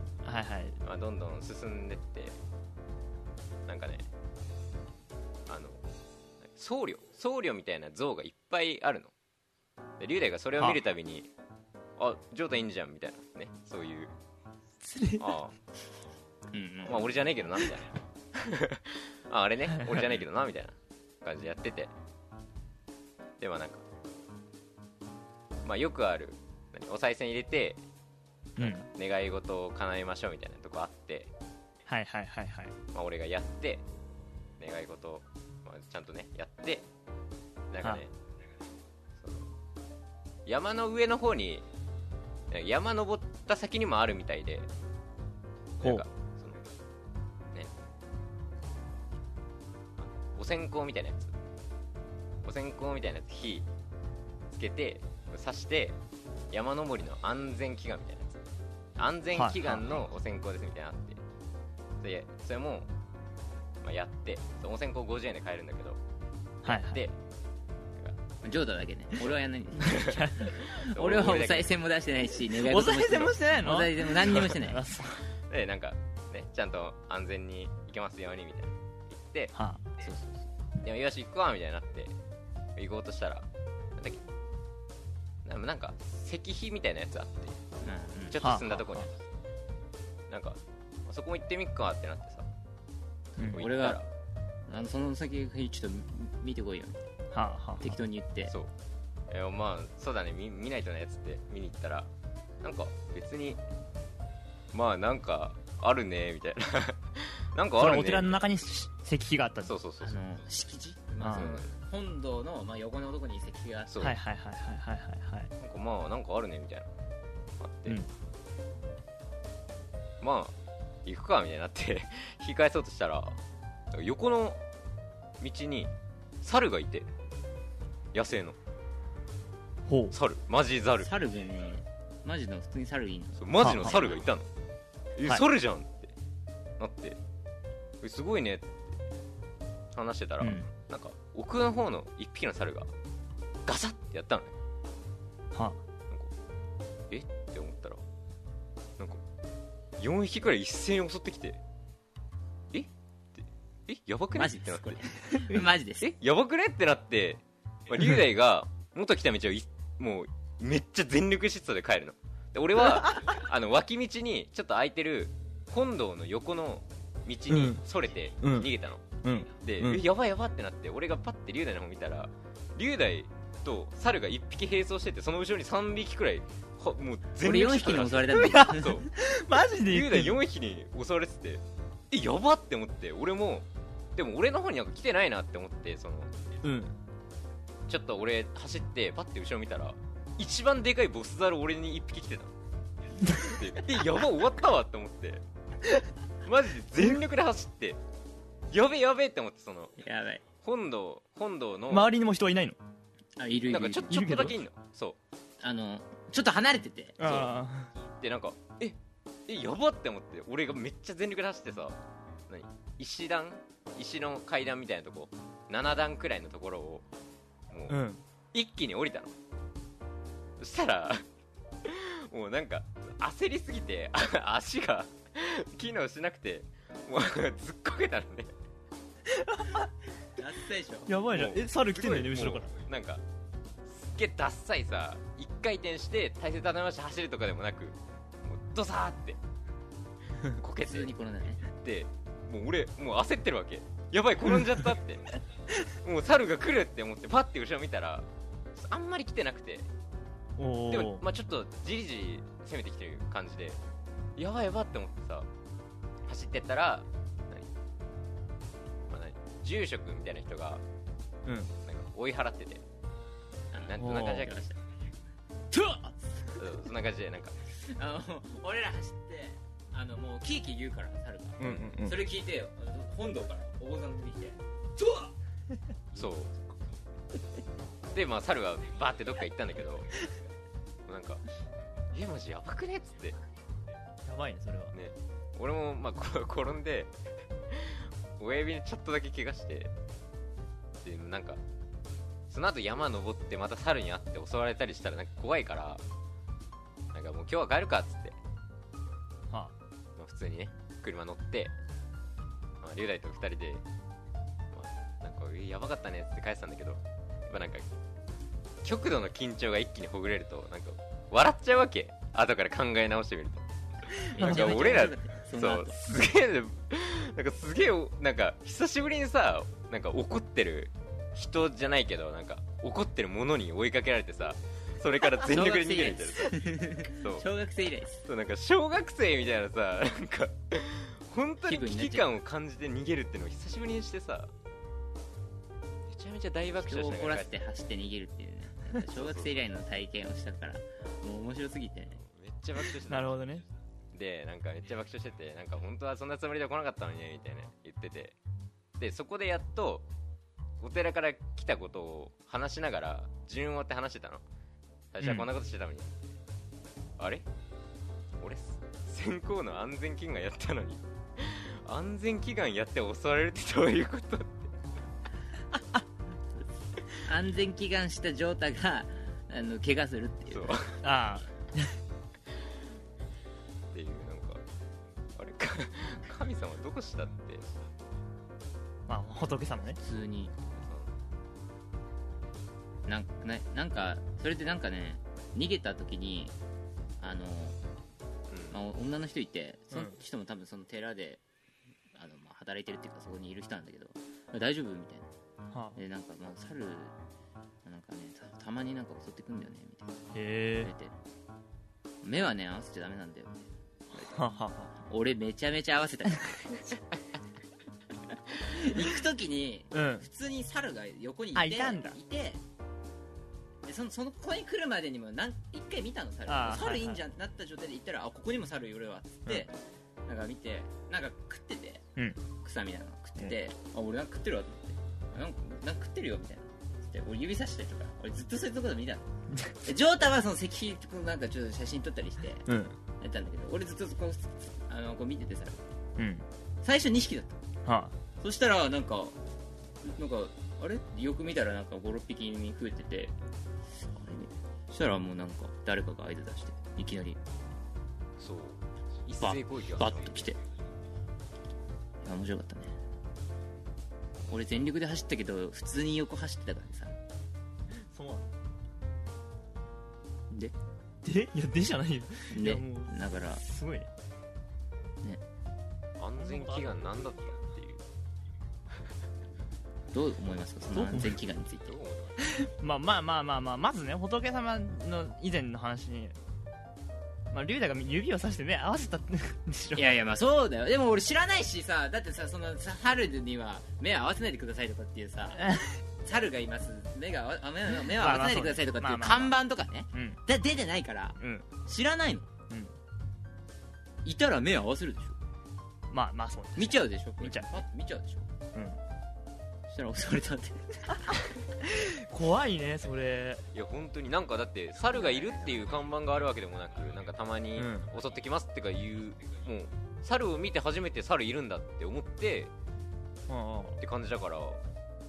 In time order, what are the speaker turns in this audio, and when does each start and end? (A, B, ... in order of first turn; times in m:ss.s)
0:00.2-0:00.8 A
0:00.8-0:02.4 B
0:03.7-0:04.1 B
0:05.5-0:05.8 B
0:06.4-0:09.1 B
0:10.0-0:11.3 B
0:12.0-0:14.1 B
0:14.8-0:15.3 A
0:15.2-0:15.6 B
0:16.5-0:17.2 C
0:16.8-0:21.9 B
0:19.7-0:20.0 A
0:23.4-0:23.8 B
0:25.6-0:27.8 B
0:28.6-0:28.9 A
0:28.6-0:31.3 B
0:31.9-0:32.8 A
0:32.9-0:33.9 B
0:34.6-0:36.9 B
0:37.7-0:38.1 B
0:39.2-0:39.5 B
0:40.5-0:41.7 B
0:42.5-0:44.7 B
0:45.8-0:46.6 B
0:50.0-0:51.3 B
0:52.4-0:53.7 B
0:54.5-0:56.0 B
0:56.5-0:58.4 B
0:59.0-1:01.2 B
0:59.3-0:59.9 A
1:02.0-1:02.9 B
1:03.8-1:06.0 B
1:06.6-1:07.0 A
1:06.6-1:07.2 B
1:08.4-1:14.8 C
1:09.8-1:10.7 A
1:09.8-1:11.7 B
1:12.5-1:15.3 A
1:15.4-1:19.5 B
1:19.5-1:19.8 A
1:20.0-1:20.5 C
1:20.8-1:22.2 B
1:22.8-1:24.2 B
1:25.4-1:27.6 B
1:27.8-1:28.4 C
1:28.3-1:29.1 B
1:28.4-1:29.1 A
1:30.3-1:32.5 B
1:33.4-1:33.6 A
1:33.4-1:34.0 C
1:33.4-1:34.1 B
1:34.7-1:37.0 C
1:37.3-1:37.9 A
1:37.8-1:38.5 C
1:39.3-1:42.1 B
1:42.6-1:43.6 B
1:44.7-1:48.4 B
1:47.8-1:49.8 A
1:49.6-1:50.2 B
1:50.0-1:54.0 C
1:51.2-1:51.5 A
1:51.3-1:51.7 B
1:53.9-1:54.2 B
1:54.0-1:55.5 A
1:55.6-1:56.9 B
1:57.6-1:58.0 B
2:00.2-2:03.4 B
2:03.9-2:04.6 B
2:05.4-2:07.1 B
2:08.1-2:08.6 B
2:09.9-2:10.2 A
2:10.1-2:11.1 B
2:11.0-2:14.2 C
2:13.4-2:14.5 B
2:13.6-2:14.0 A
2:15.2-2:16.1 B
2:16.8-2:17.2 B
2:18.0-2:18.8 B
2:19.9-2:22.9 B
2:20.4-2:20.7 A
2:23.7-2:24.6 B
2:25.5-2:25.8 A
2:27.1-2:28.0 B
2:29.0-2:29.2 B
2:30.0-2:31.6 B
2:32.7-2:35.0 B
2:34.3-2:36.1 C
2:35.3-2:35.6 A
2:36.0-2:49.0 B
2:43.0-2:43.3 A
2:47.5-2:47.8 A
2:48.4-2:48.7 A
2:49.2-2:50.0 A
2:49.6-2:59.1 B
2:57.4-2:59.1 C
2:58.3-3:00.4 A
2:59.8-3:06.3 B
3:06.6-3:07.0 A
3:07.9-3:12.5 B
3:13.2-3:13.5 A
3:13.3-3:15.4 B
3:16.4-3:18.0 B
3:18.7-3:19.9 B
3:20.0-3:20.4 C
3:20.6-3:22.1 B
3:21.9-3:22.8 A
3:23.4-3:24.4 C
3:23.7-3:25.2 B
3:24.1-3:24.6 A
3:25.6-3:27.2 C
3:27.2-3:27.9 A
3:27.2-3:27.5 B
3:28.2-3:37.1 B
3:37.7-3:38.0 B
3:37.9-3:38.2 A
3:38.5-3:39.4 B
3:40.6-3:41.3 B
3:41.8-3:48.5 B
3:49.3-3:49.9 A
3:50.4-3:51.1 C
3:51.1-3:52.7 A
3:51.3-3:53.2 B
3:53.8-3:59.4 B
4:00.5-4:01.1 B
4:00.8-4:01.6 C
4:01.8-4:05.3 B
4:05.8-4:09.9 B
4:10.6-4:11.2 A
4:10.9-4:13.8 B
4:14.4-4:15.5 B
4:16.3-4:17.7 B
4:19.1-4:20.8 B
4:21.5-4:21.7 A
4:21.8-4:22.8 B
4:23.7-4:24.8 C
4:23.7-4:24.6 B
4:24.0-4:24.5 A
4:25.7-4:26.8 C
4:26.6-4:27.6 B
4:27.8-4:35.3 C
4:31.6-4:32.2 A
4:31.6-4:32.0 B
4:36.2-4:36.5 B
4:38.1-4:40.1 B
4:41.1-4:41.4 B
4:42.1-4:43.4 B
4:44.2-4:45.0 A
4:44.9-4:47.1 B
4:47.7-4:49.9 B
4:51.0-4:51.6 B
4:52.5-4:56.0 B
4:57.1-4:58.4 B
5:00.2-5:01.7 B
5:02.8-5:03.8 B
5:04.7-5:07.9 B
5:08.8-5:13.7 B
5:14.1-5:14.8 A
5:14.3-5:27.5 B
5:14.4-5:16.0 C
5:25.4-5:28.2 C
5:28.2-5:34.5 B
5:31.7-5:32.3 C
5:36.1-5:37.5 B
5:36.8-5:42.2 C
5:39.0-5:39.5 B
5:42.2-5:43.4 B
5:43.1-5:43.7 A
5:44.1-5:48.4 B
5:49.0-5:50.1 B
5:50.8-5:54.5 B
5:55.1-5:56.2 B
5:55.2-5:55.5 A
5:57.2-5:57.5 B
5:58.4-6:04.7 B
6:07.2-6:10.8 C
6:10.5-6:11.0 B
6:11.0-6:12.0 A
6:13.9-6:14.6 B
6:15.4-6:17.7 B
6:19.1-6:20.0 A
6:20.0-6:20.5 C
6:20.7-6:21.1 B
6:23.1-6:26.6 C
6:27.2-6:27.8 C
6:28.5-6:28.8 B
6:28.7-6:31.4 C
6:29.9-6:30.2 A
6:32.1-6:35.3 C
6:35.7-6:36.0 A
6:36.0-6:37.2 C
6:37.8-6:41.1 C
6:40.3-6:40.9 A
6:42.2-6:44.3 C
6:44.1-6:44.9 A
6:45.0-6:46.9 C
6:48.6-6:52.6 C
6:49.9-6:50.3 A
6:51.6-6:52.2 A
6:53.9-6:59.7 C
6:56.5-6:57.2 A
7:00.3-7:09.2 C
7:09.8-7:12.7 C
7:12.7-7:13.0 A
7:13.2-7:15.8 C
7:16.2-7:16.4 A
7:16.8-7:17.6 C
7:17.8-7:18.1 A
7:18.4-7:19.4 C
7:20.0-7:23.3 C
7:24.0-7:27.4 C
7:28.4-7:30.6 B
7:29.4-7:30.6 C
7:32.2-7:33.0 C
7:34.5-7:37.2 C
7:38.0-7:38.5 A
7:41.2-7:44.1 A
7:42.5-7:43.6 C
7:46.2-7:48.0 B
7:46.4-7:47.0 A
7:50.1-7:52.0 C
7:51.0-7:51.4 A
7:51.8-7:52.6 B
7:52.4-7:56.4 A
7:57.5-8:00.1 A
8:00.0-8:05.6 C
8:05.6-8:06.0 A
8:06.2-8:12.5 C
8:08.1-8:09.6 A
8:10.1-8:10.4 A
8:11.4-8:11.7 A
8:12.7-8:13.0 A
8:14.2-8:15.4 C
8:16.1-8:17.8 A
8:16.8-8:18.5 C
8:19.9-8:21.4 C
8:21.1-8:23.7 A
8:23.7-8:32.7 B
8:25.1-8:26.0 C
8:27.8-8:28.1 A
8:33.5-8:34.0 A
8:34.0-8:34.8 B